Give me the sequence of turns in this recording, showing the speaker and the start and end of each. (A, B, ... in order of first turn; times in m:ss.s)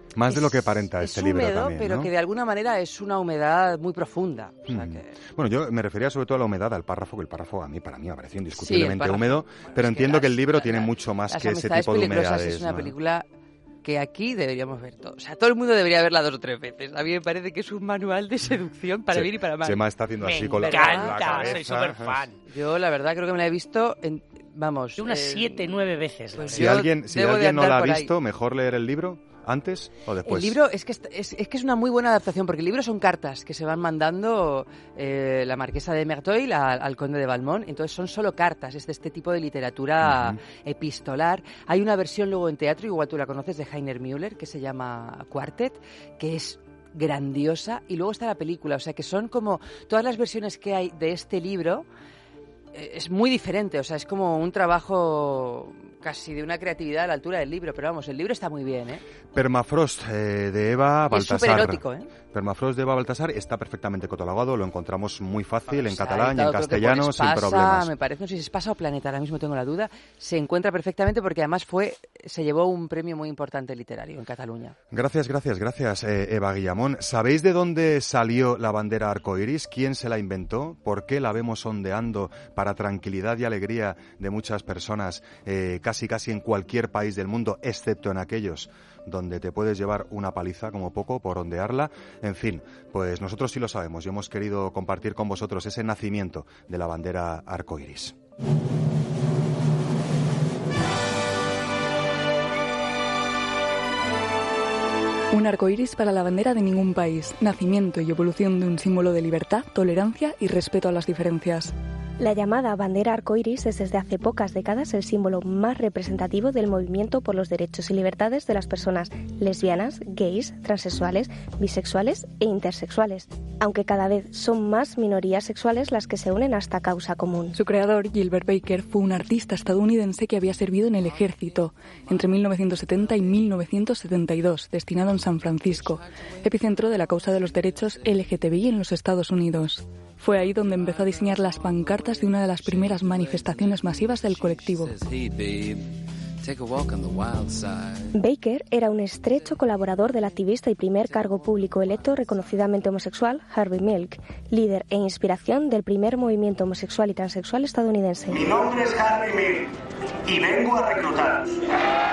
0:00.1-0:02.1 A
0:00.3-0:05.1 B
0:04.7-0:12.9 A
0:08.6-0:13.3 B
0:13.8-0:19.8 B
0:19.1-0:22.2 A
0:20.2-0:22.4 C
0:20.6-0:21.7 B
0:22.5-0:25.7 B
0:25.0-0:26.8 C
0:26.4-0:28.1 B
0:26.5-0:30.6 A
0:30.2-0:51.9 B
0:40.0-0:40.4 A
0:52.7-0:59.0 B
0:59.3-1:07.9 A
1:01.1-1:02.1 B
1:05.7-1:14.8 B
1:14.9-1:38.1 A
1:45.3-1:51.7 D
1:52.2-2:07.6 E
2:07.5-2:25.0 D
2:28.1-2:38.4 E
2:38.3-2:39.7 F
2:40.2-2:41.6 F